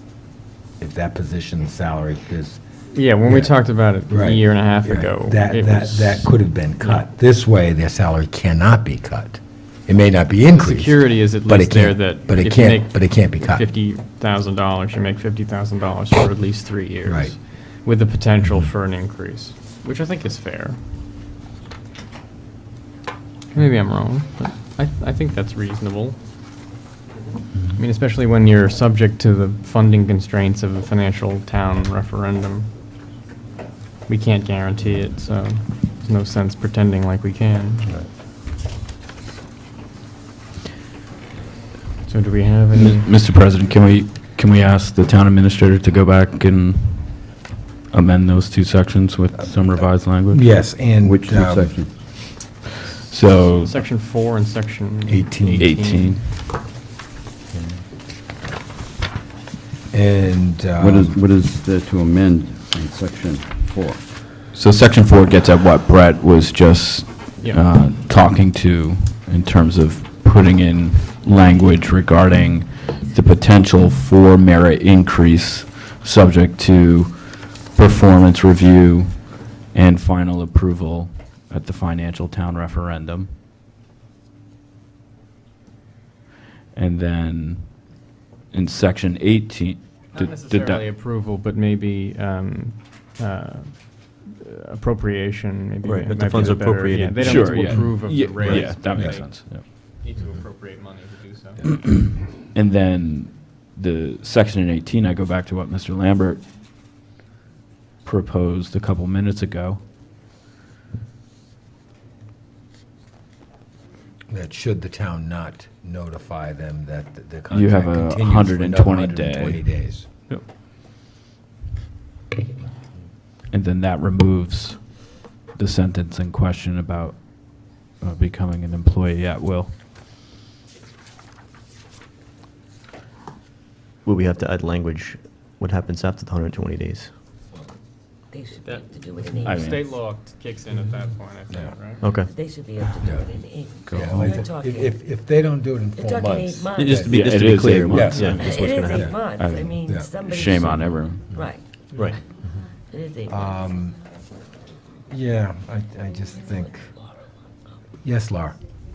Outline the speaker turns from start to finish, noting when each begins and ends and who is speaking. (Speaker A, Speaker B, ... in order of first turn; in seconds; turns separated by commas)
Speaker A: 0.8-2.6, Speaker B: 2.9-7.0, Speaker A: 3.2-3.5, Speaker A: 4.1-13.7, Speaker B: 10.5-20.8, Speaker A: 17.1-17.4, Speaker B: 23.5-26.2, Speaker B: 27.7-32.7, Speaker B: 34.1-37.9, Speaker B: 42.1-43.1, Speaker C: 42.7-47.4, Speaker C: 47.9-50.6, Speaker A: 50.1-51.8, Speaker D: 51.0-51.9, Speaker C: 53.1-53.7, Speaker B: 53.5-56.2, Speaker A: 55.1-55.7, Speaker C: 55.6-56.3, Speaker A: 59.9-61.2, Speaker D: 60.8-64.1, Speaker C: 64.5-83.3, Speaker C: 86.7-90.8, Speaker B: 90.1-101.7, Speaker E: 95.8-97.6, Speaker C: 97.2-99.7, Speaker A: 97.7-99.2, Speaker C: 101.9-106.5, Speaker C: 108.0-109.8, Speaker A: 114.3-120.1, Speaker C: 117.5-119.8, Speaker C: 123.5-129.8, Speaker E: 134.0-137.2, Speaker F: 138.3-139.6, Speaker B: 138.6-142.0, Speaker C: 139.4-139.8, Speaker E: 142.0-142.3, Speaker F: 142.3-145.0, Speaker A: 143.0-147.2, Speaker C: 143.9-144.4, Speaker F: 146.0-147.1, Speaker E: 146.8-149.0, Speaker C: 147.1-151.4, Speaker A: 147.8-149.2, Speaker F: 148.4-150.9, Speaker A: 149.8-150.1, Speaker F: 151.4-152.2, Speaker F: 152.9-153.7, Speaker A: 153.2-154.0, Speaker A: 155.1-157.0, Speaker A: 158.0-158.6